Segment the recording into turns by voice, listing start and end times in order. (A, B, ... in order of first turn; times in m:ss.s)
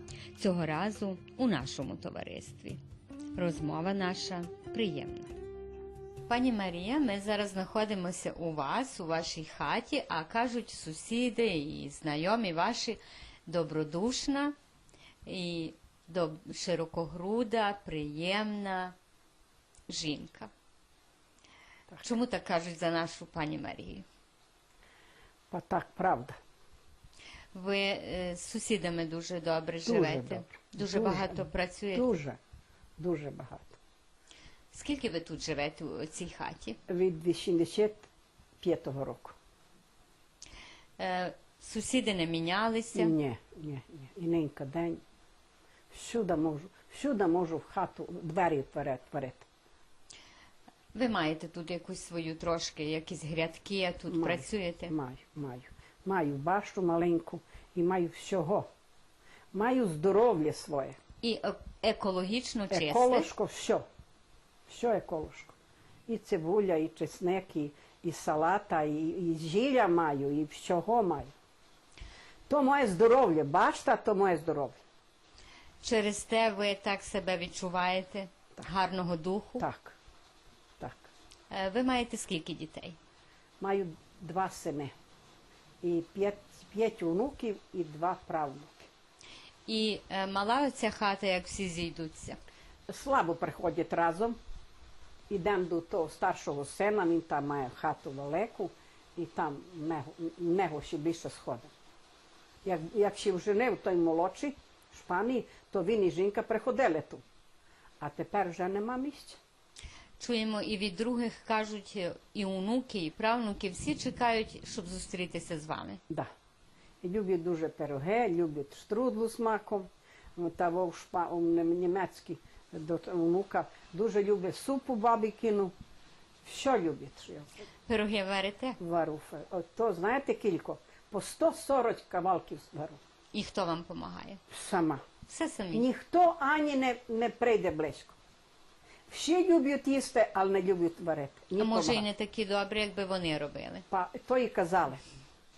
0:00.4-0:02.8 A
0:03.3-0:05.3 A
0:06.3-0:14.5 A
0:15.2-0:18.9 A
0:19.9-0:20.5 A
0:22.0-0:24.0 A
0:25.5-0:26.4 B
0:27.5-0:32.1 A
0:29.8-0:32.4 B
0:33.0-0:33.8 B
0:34.7-0:36.8 A
0:36.9-0:38.1 B
0:38.6-0:39.4 B
0:41.0-0:43.1 A
0:42.9-0:45.0 B
0:45.9-0:49.5 B
0:50.9-0:54.9 A
0:54.1-0:58.7 B
0:59.5-1:01.0 B
1:01.2-1:03.3 A
1:02.7-1:03.8 B
1:04.7-1:05.5 B
1:06.1-1:11.3 B
1:12.5-1:14.8 B
1:15.8-1:19.6 A
1:19.6-1:20.0 B
1:20.8-1:21.1 B
1:21.5-1:23.0 A
1:23.6-1:24.9 B
1:25.8-1:28.9 B
1:29.7-1:32.4 A
1:32.9-1:34.4 B
1:35.3-1:41.7 B
1:42.6-1:47.2 B
1:48.0-1:49.4 B
1:50.2-1:56.0 A
1:57.0-2:05.7 B
2:06.4-2:07.6 B
2:07.9-2:08.8 A
2:08.8-2:13.0 B
2:13.3-2:14.4 A
2:14.5-2:15.0 B
2:15.3-2:15.8 A
2:15.7-2:18.2 B
2:19.1-2:22.0 B
2:21.6-2:23.8 A
2:23.9-2:25.0 B